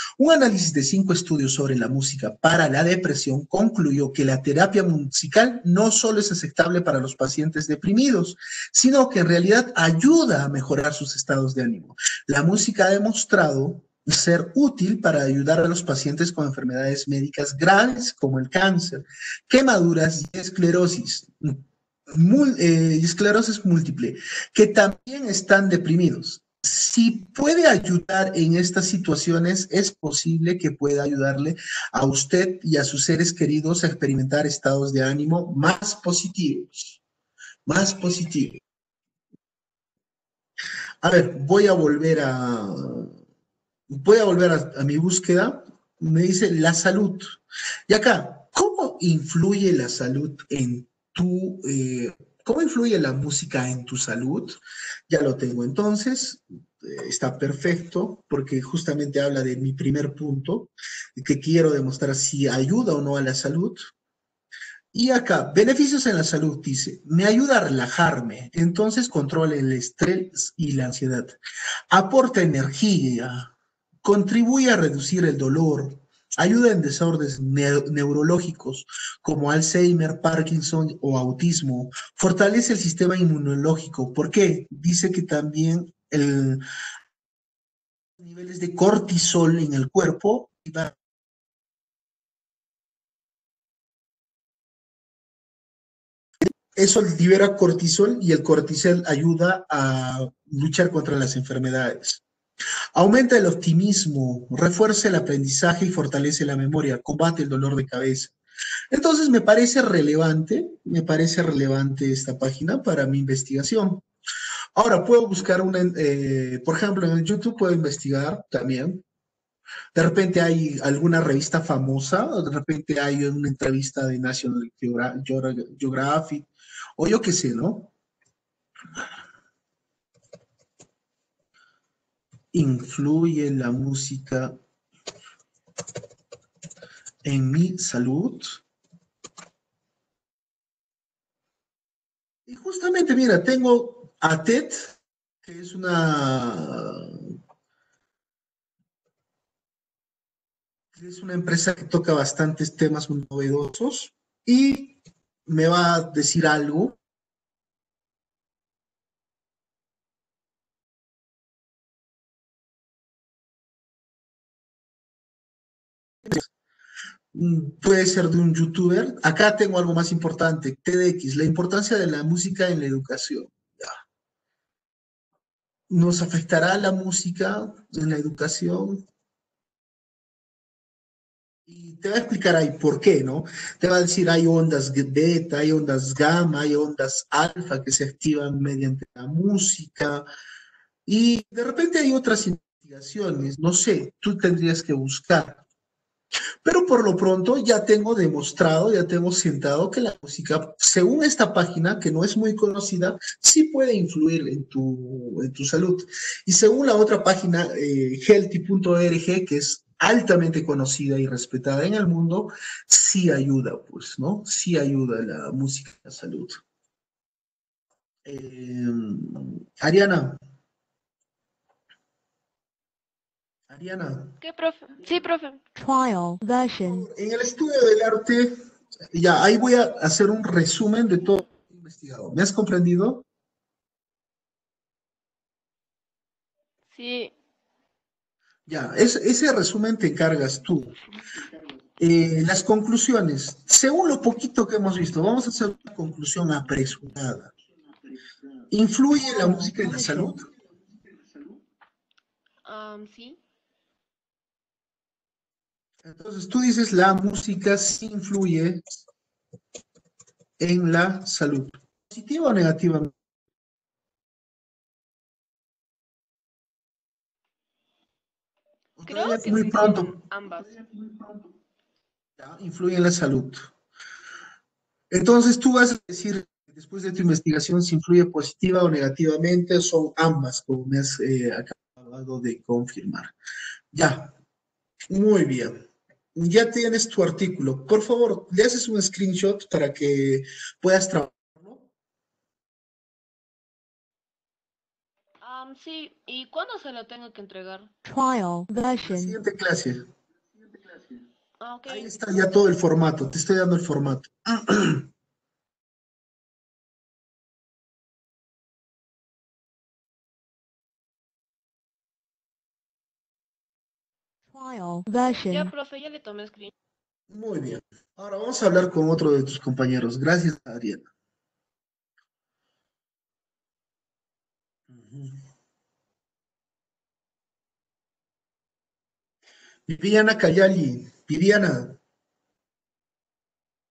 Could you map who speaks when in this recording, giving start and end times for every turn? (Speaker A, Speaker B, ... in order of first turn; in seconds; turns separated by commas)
Speaker A: 0.2-37.0, Speaker A: 37.6-38.6, Speaker A: 41.0-43.1, Speaker A: 43.9-63.9, Speaker A: 64.9-71.3, Speaker A: 71.9-86.6, Speaker A: 88.2-90.9, Speaker A: 96.7-102.2, Speaker A: 102.9-108.3, Speaker A: 108.9-114.0, Speaker A: 114.7-119.0, Speaker A: 119.9-127.9, Speaker A: 132.5-134.6, Speaker A: 137.2-138.6, Speaker A: 142.4-147.3, Speaker A: 150.9-157.0, Speaker A: 167.3-173.9, Speaker A: 175.9-179.1, Speaker A: 181.7-190.3, Speaker A: 191.1-195.6, Speaker A: 196.6-216.6, Speaker A: 218.2-220.4, Speaker A: 223.7-224.4, Speaker B: 224.4-225.6, Speaker C: 225.7-227.1, Speaker A: 226.8-228.6, Speaker A: 229.1-233.2, Speaker B: 236.9-237.3, Speaker A: 238.7-240.9, Speaker A: 242.0-247.5, Speaker A: 248.7-250.5, Speaker C: 249.2-250.3, Speaker B: 252.6-253.4, Speaker A: 256.0-259.0, Speaker A: 260.6-263.1, Speaker A: 269.0-270.2, Speaker B: 269.1-270.7, Speaker A: 270.9-271.5, Speaker A: 272.4-273.7, Speaker A: 275.1-283.3, Speaker A: 283.9-284.3, Speaker A: 285.1-285.8, Speaker A: 286.3-291.9, Speaker B: 295.4-297.9, Speaker C: 298.0-299.4, Speaker A: 299.1-300.1, Speaker B: 301.6-302.1, Speaker A: 301.9-305.1, Speaker C: 314.5-315.7, Speaker B: 315.2-316.7, Speaker A: 317.3-321.1, Speaker A: 324.9-325.4, Speaker A: 329.9-332.0